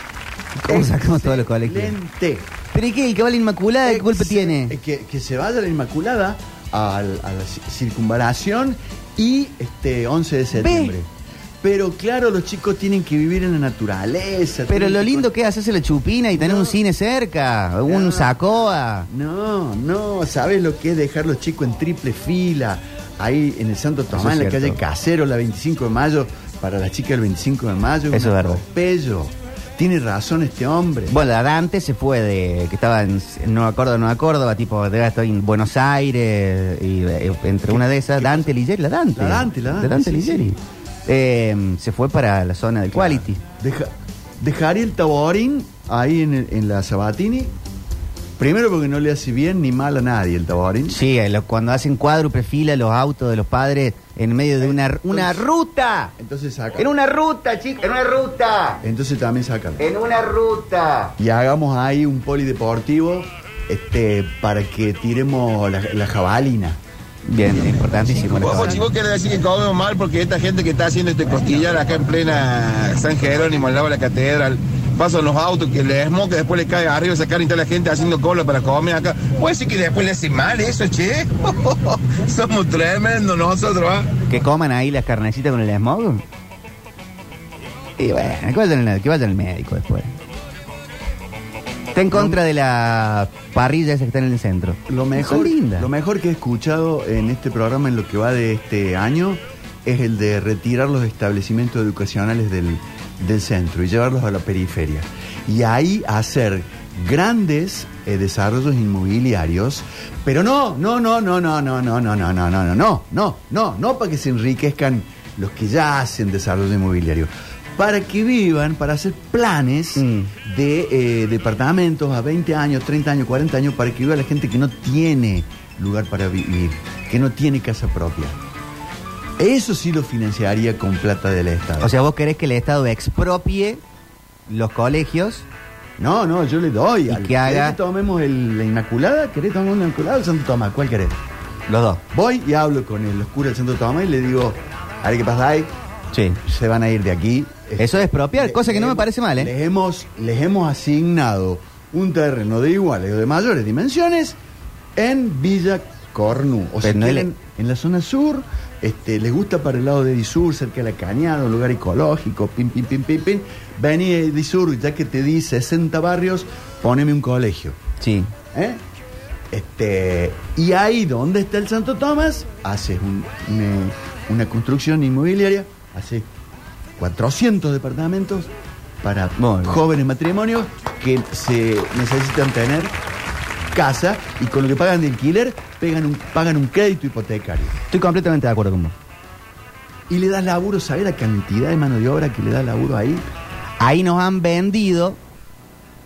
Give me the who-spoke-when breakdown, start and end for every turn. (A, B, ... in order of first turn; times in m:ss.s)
0:00.6-0:02.0 A
0:00.7-0:02.5 B
0:02.7-0:04.8 A
0:03.8-0:11.1 B
0:10.6-0:11.0 A
0:11.6-0:15.3 B
0:14.7-0:19.1 A
0:16.3-0:16.8 B
0:17.9-0:31.2 B
0:24.1-0:24.8 A
0:28.1-0:28.6 A
0:31.1-0:43.4 A
0:37.7-0:38.6 B
0:39.1-0:40.5 B
0:42.9-0:47.5 B
0:48.4-0:51.0 B
0:50.9-0:56.1 A
0:54.6-0:55.5 B
0:56.2-0:56.9 B
0:56.8-0:58.8 A
0:58.8-0:59.8 B
0:59.8-1:01.2 A
1:01.2-1:06.8 B
1:07.3-1:08.8 A
1:07.7-1:08.0 B
1:08.2-1:24.1 C
1:24.3-1:26.2 A
1:28.0-1:30.1 A
1:31.9-1:35.9 A
1:32.1-1:32.4 B
1:34.9-2:08.4 B
2:00.0-2:00.3 A
2:09.4-2:11.9 B
2:11.8-2:13.8 A
2:14.5-2:15.4 A
2:16.0-2:21.2 B
2:17.1-2:17.8 A
2:21.7-2:22.0 A
2:22.1-2:25.7 B
2:26.1-2:26.4 A
2:26.4-2:34.4 B
2:27.8-2:29.5 A
2:35.0-2:47.8 B
2:36.8-2:37.3 A
2:48.0-2:48.3 A
2:48.5-2:48.8 B
2:49.5-2:56.3 B
2:57.0-3:02.9 B
2:59.4-2:59.8 A
3:03.7-3:07.8 B
3:07.9-3:09.0 A
3:10.1-3:13.3 B
3:13.8-3:15.2 A